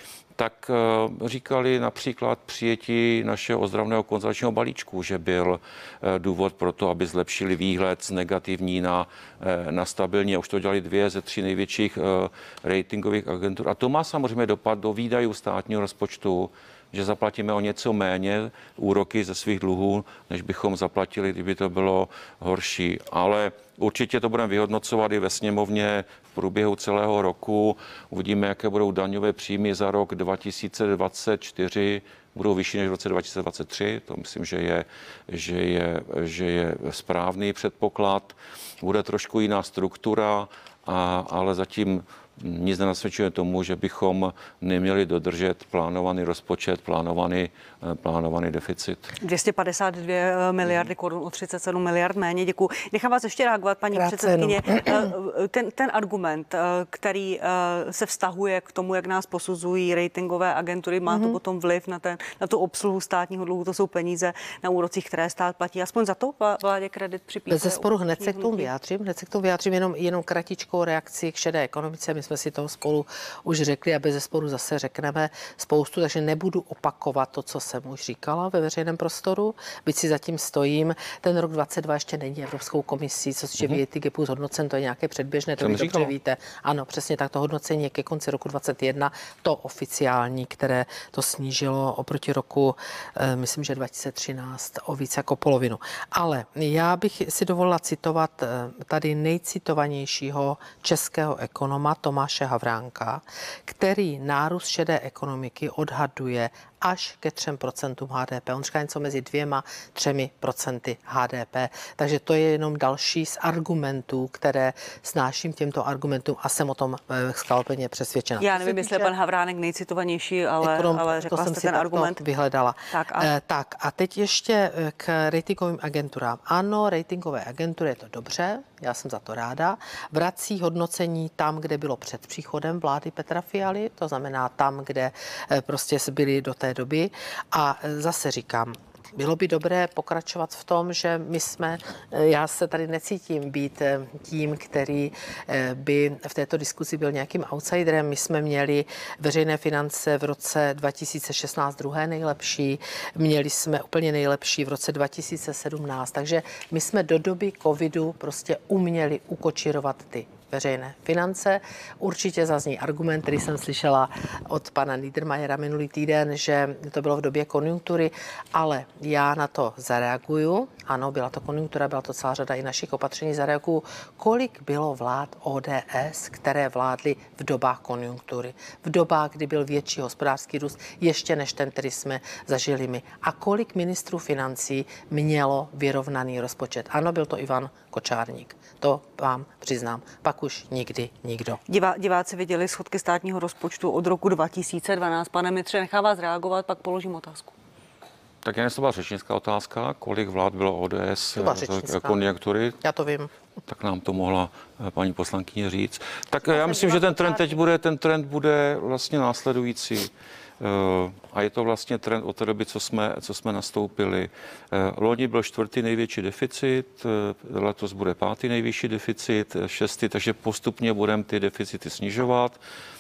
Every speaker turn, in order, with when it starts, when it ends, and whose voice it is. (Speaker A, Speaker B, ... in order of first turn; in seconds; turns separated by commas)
Speaker A: 0.4-49.1, Speaker B: 49.2-68.7, Speaker C: 53.9-55.1, Speaker C: 61.1-61.4, Speaker C: 67.5-119.1, Speaker A: 85.6-86.1, Speaker B: 118.4-122.2, Speaker C: 120.6-191.6, Speaker B: 122.9-123.3, Speaker B: 191.7-197.5, Speaker A: 198.4-202.8, Speaker C: 201.4-202.3, Speaker C: 202.8-203.3, Speaker A: 203.7-222.6, Speaker C: 206.5-207.6